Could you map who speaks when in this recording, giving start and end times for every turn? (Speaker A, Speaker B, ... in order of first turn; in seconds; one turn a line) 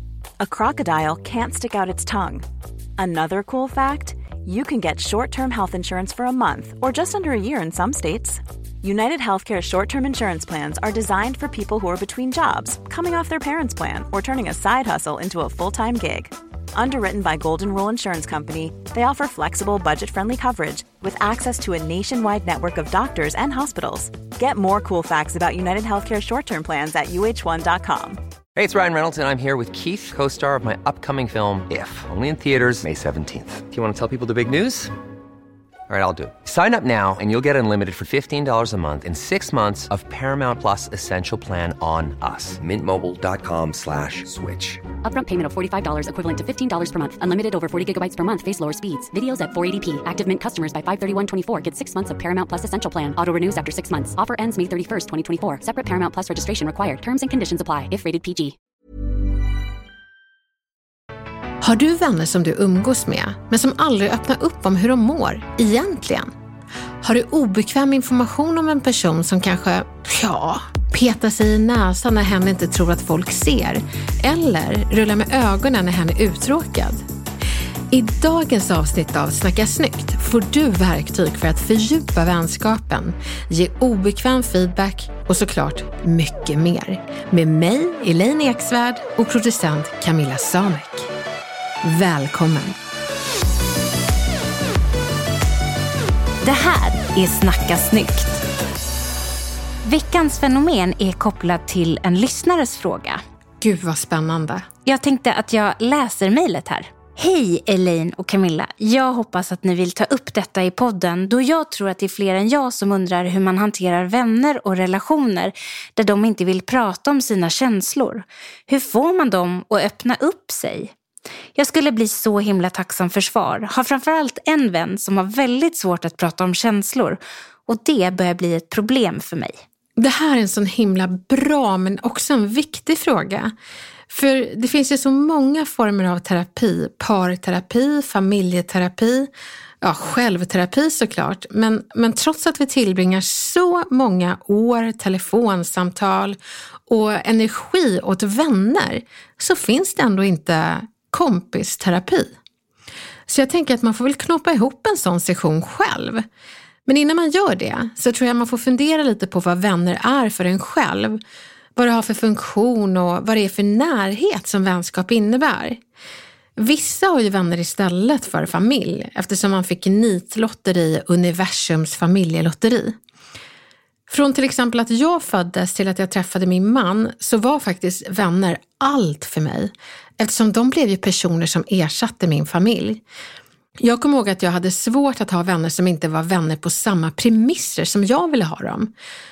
Speaker A: 0.4-2.5
Speaker A: 3.0-28.2
Speaker B: 28.6-34.9
Speaker B: 35.9-44.8
Speaker C: 45.0-58.5
Speaker D: 61.6-66.3
Speaker D: 67.0-77.0
Speaker D: 77.9-91.1
Speaker D: 91.8-92.8
Speaker E: 96.4-98.4
Speaker E: 99.8-103.2
Speaker D: 103.6-104.7
Speaker E: 104.8-120.9
Speaker E: 121.5-129.5
Speaker D: 130.0-133.5
Speaker D: 134.1-139.3
Speaker D: 139.8-152.3
Speaker D: 153.3-156.2
Speaker D: 156.8-161.2
Speaker D: 161.8-165.8
Speaker D: 166.6-173.0
Speaker D: 174.1-183.0
Speaker D: 183.8-188.9